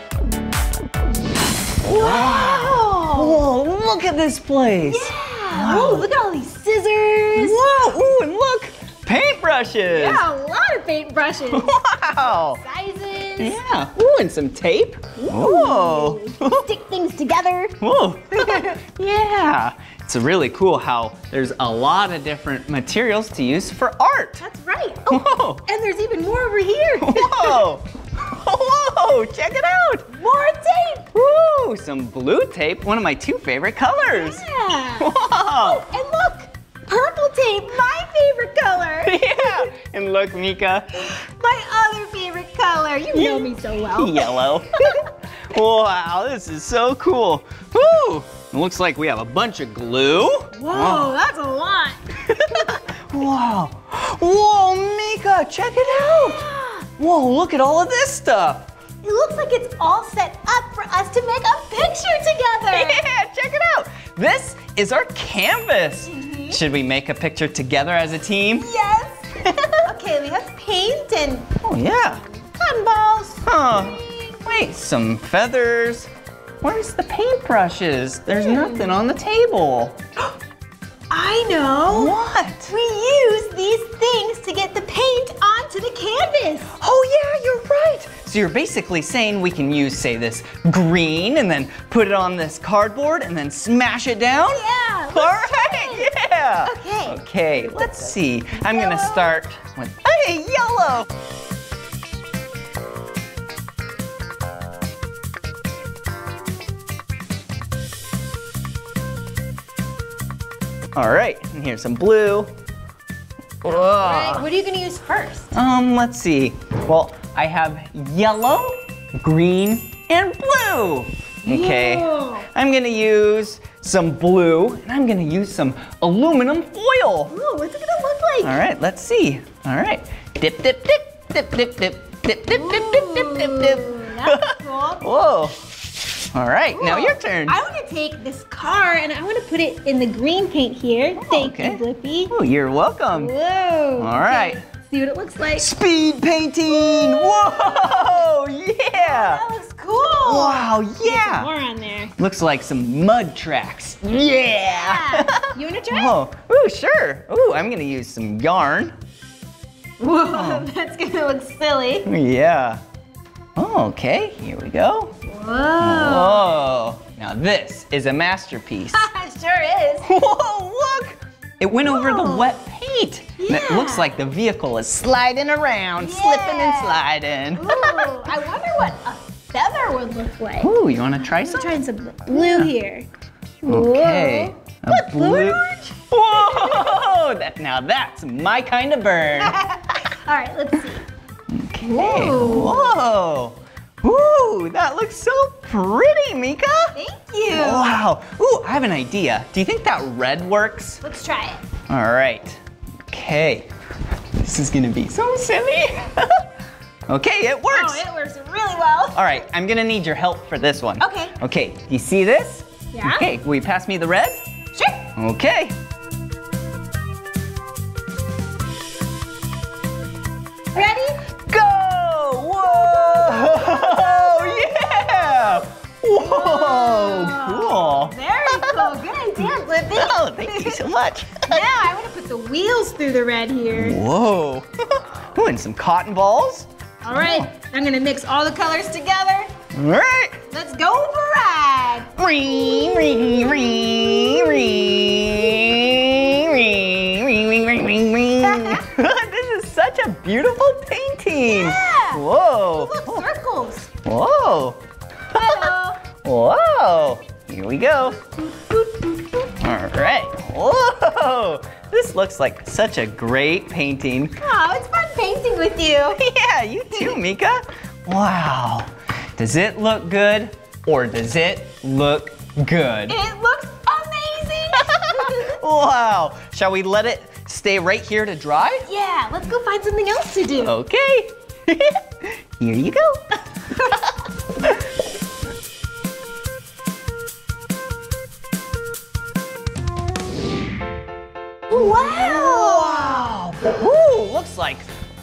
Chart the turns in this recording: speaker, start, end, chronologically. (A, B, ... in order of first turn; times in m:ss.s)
0:01.8-0:06.1 A
0:01.9-0:03.4 B
0:04.9-0:07.6 B
0:07.3-0:10.2 A
0:09.9-0:13.6 B
0:11.5-0:12.6 A
0:13.4-0:16.6 A
0:15.2-0:17.8 B
0:17.8-0:24.4 A
0:18.3-0:18.8 B
0:24.4-0:27.7 B
0:25.1-0:25.6 A
0:27.0-0:30.1 A
0:30.1-0:31.1 B
0:31.1-0:34.4 A
0:34.0-0:39.7 B
0:35.0-0:35.8 A
0:39.0-0:41.1 A
0:41.1-0:44.4 B
0:43.1-0:51.1 A
0:50.6-0:52.0 B
0:52.3-0:56.4 A
0:56.1-0:56.8 B
0:57.0-0:58.7 A
0:59.0-1:03.0 B
1:02.7-1:08.7 A
1:06.0-1:06.6 B
1:08.6-1:11.5 B
1:11.6-1:12.2 A
1:12.2-1:14.0 B
1:13.4-1:16.1 A
1:16.6-1:20.0 A
1:18.3-1:19.0 B
1:21.1-1:22.2 B
1:21.9-1:22.7 A
1:22.7-1:26.7 B
1:26.8-1:41.1 A
1:34.4-1:36.1 B
1:36.6-1:37.2 B
1:37.8-1:39.3 B
1:50.9-1:52.5 A
1:53.6-1:54.4 A
1:54.0-1:55.5 B
1:55.5-2:07.3 A
2:01.4-2:02.4 B
2:07.3-2:08.6 B
2:08.4-2:15.6 A
2:12.4-2:15.0 B
2:16.3-2:17.6 A
2:16.7-2:22.3 B
2:21.2-2:23.3 A
2:23.1-2:25.7 B
2:24.0-2:24.6 A
2:25.6-2:29.4 A
2:26.7-2:28.2 B
2:28.9-2:32.1 B
2:30.2-2:31.5 A
2:32.2-2:38.9 A
2:34.6-2:36.2 B
2:40.0-2:42.1 B
2:40.3-2:40.7 A
2:42.0-2:42.8 A
2:43.6-2:45.1 A
2:45.3-2:46.4 B
2:45.8-2:49.0 A
2:48.9-2:50.1 B
2:50.0-2:58.1 A
2:51.8-2:52.5 B
2:53.4-2:54.2 B
2:56.0-3:00.7 B
3:00.6-3:02.7 A
3:01.3-3:03.1 B
3:03.6-3:09.6 A
3:03.6-3:06.9 B
3:09.4-3:11.0 B
3:11.5-3:16.9 A
3:11.8-3:13.0 B
3:16.9-3:18.0 B
3:17.5-3:21.0 A
3:21.0-3:21.6 B
3:21.9-3:23.7 A
3:24.4-3:26.4 A
3:27.1-3:28.0 A
3:27.7-3:29.4 B
3:29.1-3:34.4 A
3:31.0-3:31.3 B
3:32.9-3:33.3 B
3:34.7-3:35.1 B
3:35.2-3:35.8 A
3:40.7-3:41.2 B
3:41.5-3:48.9 A
3:42.6-3:45.6 B
3:46.1-3:50.9 B
3:49.4-3:51.6 A
3:51.5-3:54.0 B
3:53.8-3:57.5 A
3:57.0-3:59.5 B
3:59.7-4:00.4 A
4:00.5-4:05.3 B
4:02.2-4:13.2 A
4:08.5-4:08.8 B
4:11.5-4:13.9 B
4:14.0-4:14.8 A
4:15.3-4:16.0 B
4:15.4-4:18.2 A
4:18.5-4:18.9 B
4:19.6-4:24.4 A
4:24.4-4:26.2 B
4:26.1-4:33.2 A
4:26.9-4:27.2 B
4:33.1-4:35.6 B
4:35.0-4:38.9 A
4:38.8-4:40.8 B
4:40.6-4:43.7 A
4:51.7-4:53.3 B
4:51.8-4:54.9 A